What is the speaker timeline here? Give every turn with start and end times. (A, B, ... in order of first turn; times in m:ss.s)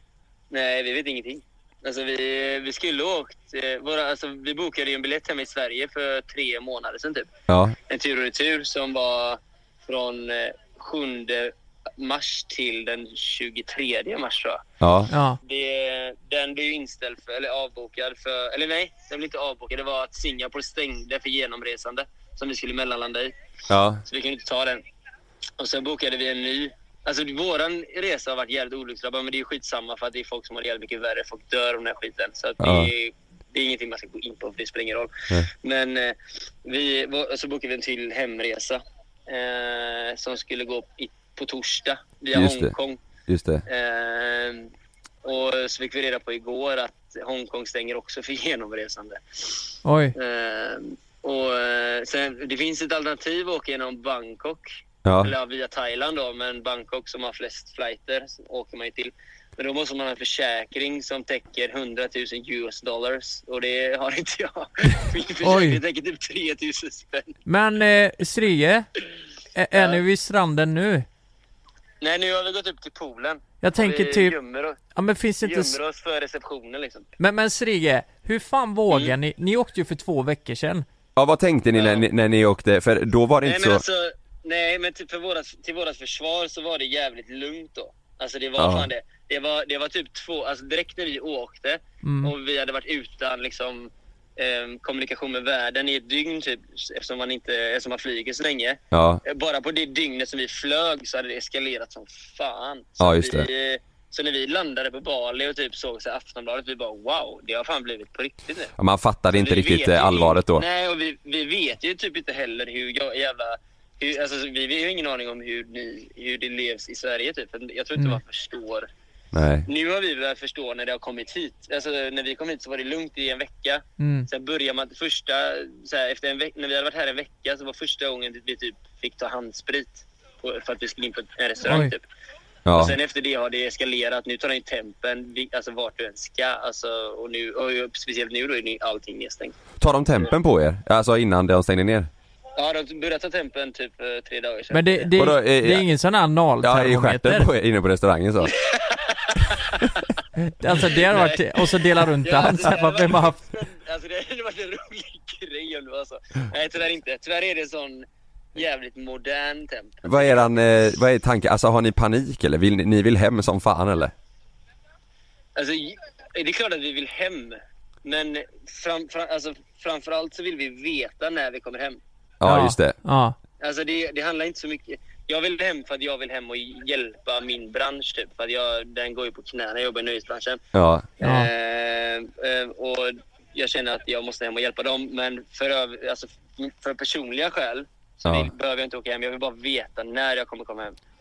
0:00.5-0:07.3 A
0:07.5-0:07.8 B
0:07.9-0:14.6 A
0:14.8-0:15.1 B
0:15.1-0:15.4 C
0:15.4-0:23.3 A
0:23.7-0:24.0 B
0:24.1-0:24.8 A
0:25.6-0:43.0 A
0:32.6-0:32.9 B
0:42.3-0:42.7 B
0:43.3-0:43.6 B
0:43.7-0:44.7 A
0:45.2-0:49.6 A
0:49.8-0:50.1 C
0:50.2-0:54.7 A
0:55.0-0:55.3 B
0:55.2-1:07.4 A
1:05.4-1:05.8 C
1:07.5-1:08.9 C
1:09.6-1:11.1 C
1:09.7-1:10.0 A
1:12.0-1:14.8 A
1:13.6-1:14.4 C
1:14.9-1:15.8 C
1:15.4-1:17.1 A
1:17.2-1:20.9 C
1:21.2-1:23.8 B
1:21.8-1:22.0 A
1:23.4-1:48.7 A
1:28.6-1:28.9 B
1:32.0-1:32.3 C
1:38.9-1:39.2 B
1:43.0-1:43.5 B
1:48.8-1:50.6 B
1:49.3-1:58.9 A
1:59.3-1:59.7 B
1:59.7-2:12.0 A
2:04.0-2:04.3 C
2:11.6-2:11.9 C
2:12.6-2:13.0 B
2:12.8-2:19.6 A
2:19.8-2:22.1 B
2:22.6-2:25.1 A
2:24.7-2:27.5 C
2:25.2-2:25.9 B
2:26.6-2:28.6 B
2:28.6-2:29.9 A
2:30.4-2:33.4 C
2:30.9-2:40.5 A
2:40.0-2:44.1 B
2:45.6-2:52.0 A
2:52.4-2:53.0 B
2:52.4-2:53.4 C
2:53.6-3:00.6 A
3:00.7-3:01.1 B
3:01.2-3:11.0 A
3:01.2-3:01.5 C
3:08.2-3:08.5 B